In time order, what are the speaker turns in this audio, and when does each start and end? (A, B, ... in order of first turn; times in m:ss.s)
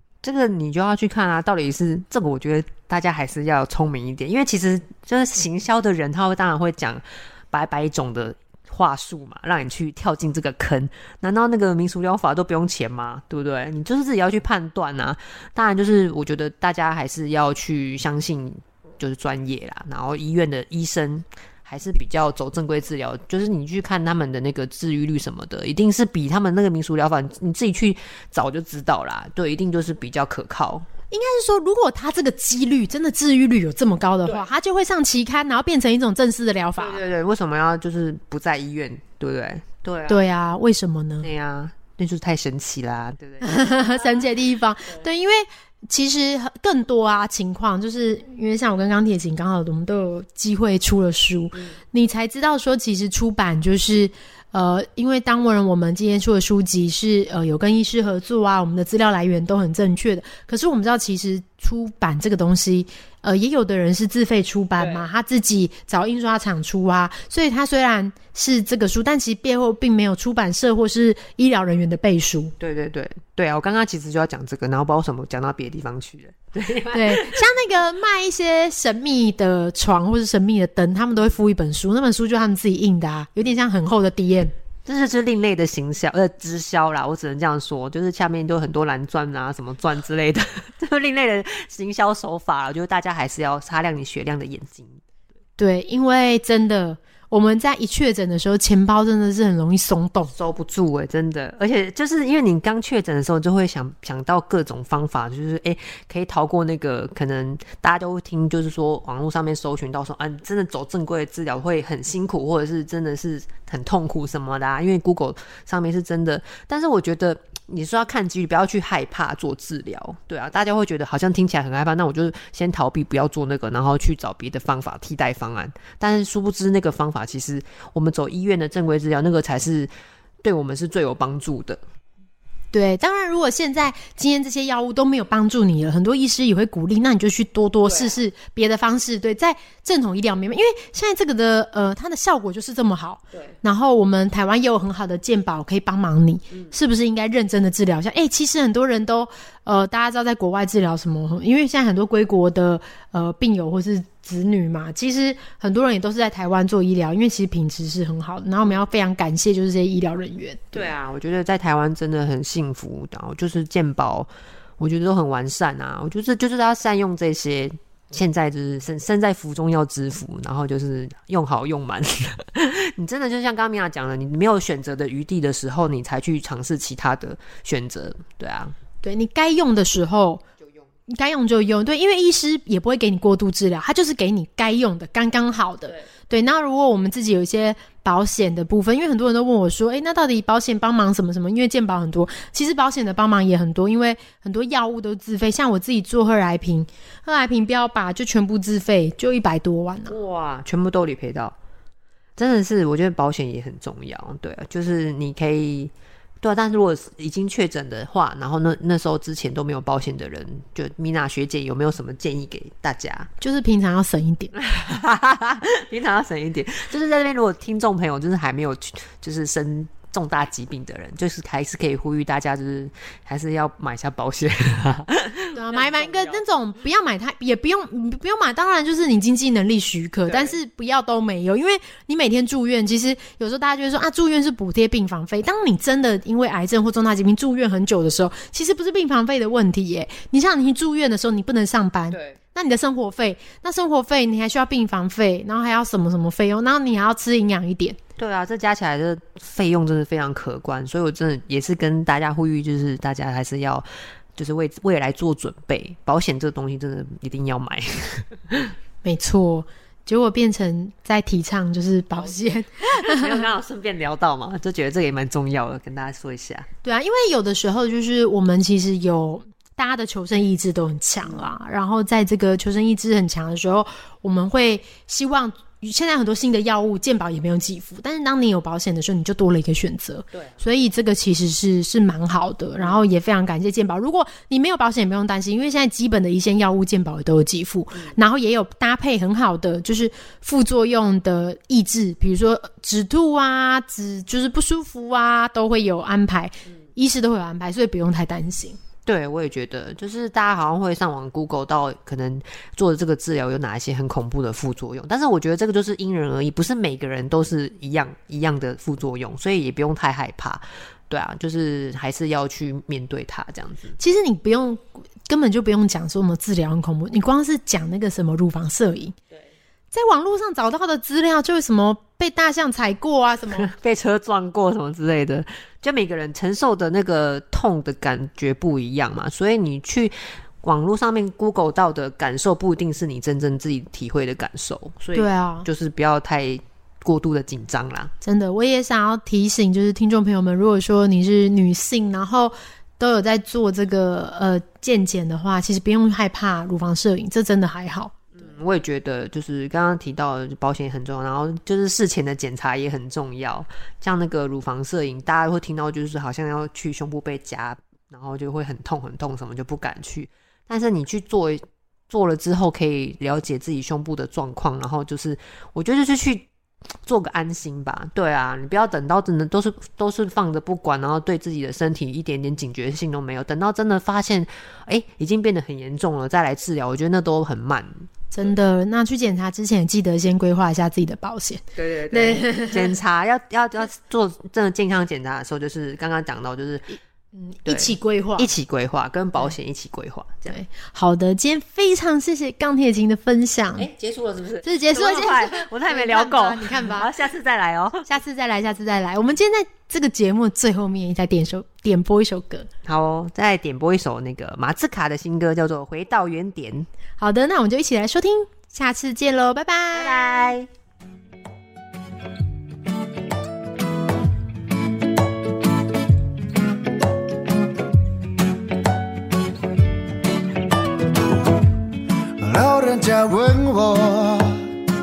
0:00.2-0:30.8 A
0:31.1-0:37.0 B
0:36.8-0:40.2 A
0:40.1-0:41.3 B
0:41.2-0:44.2 A
0:43.4-1:12.5 B
1:04.8-1:05.1 A
1:12.6-1:17.4 A
1:16.9-1:24.5 B
1:24.8-1:35.0 A
1:35.6-1:40.3 B
1:40.3-2:09.9 A
2:10.4-2:11.8 A
2:12.7-2:40.9 B
2:17.9-2:18.1 A
2:40.7-2:58.7 A
2:59.0-3:00.4 B
3:01.1-3:20.2 B
3:20.1-3:21.5 A
3:22.4-3:33.3 A
3:33.4-3:34.5 B
3:34.6-3:46.4 A
3:45.5-4:08.0 B
3:50.3-3:50.6 A
4:02.1-4:02.4 A
4:08.2-4:18.7 A
4:19.0-4:23.3 B
4:22.8-4:26.7 A
4:26.8-4:58.8 B
4:59.0-5:14.0 A
5:14.0-5:19.2 B
5:19.9-5:23.7 B
5:23.5-5:38.1 A
5:35.1-5:35.7 B
5:38.2-5:48.1 B
5:48.3-6:06.5 A
6:07.0-6:18.5 A
6:18.3-6:22.9 B
6:21.8-6:27.0 A
6:27.3-6:28.5 B
6:27.6-6:30.6 A
6:30.4-6:33.9 B
6:33.8-6:38.0 A
6:34.6-6:37.1 B
6:38.0-6:42.7 B
6:42.8-6:46.9 A
6:47.2-6:50.2 B
6:49.9-6:50.7 A
7:02.4-7:04.7 C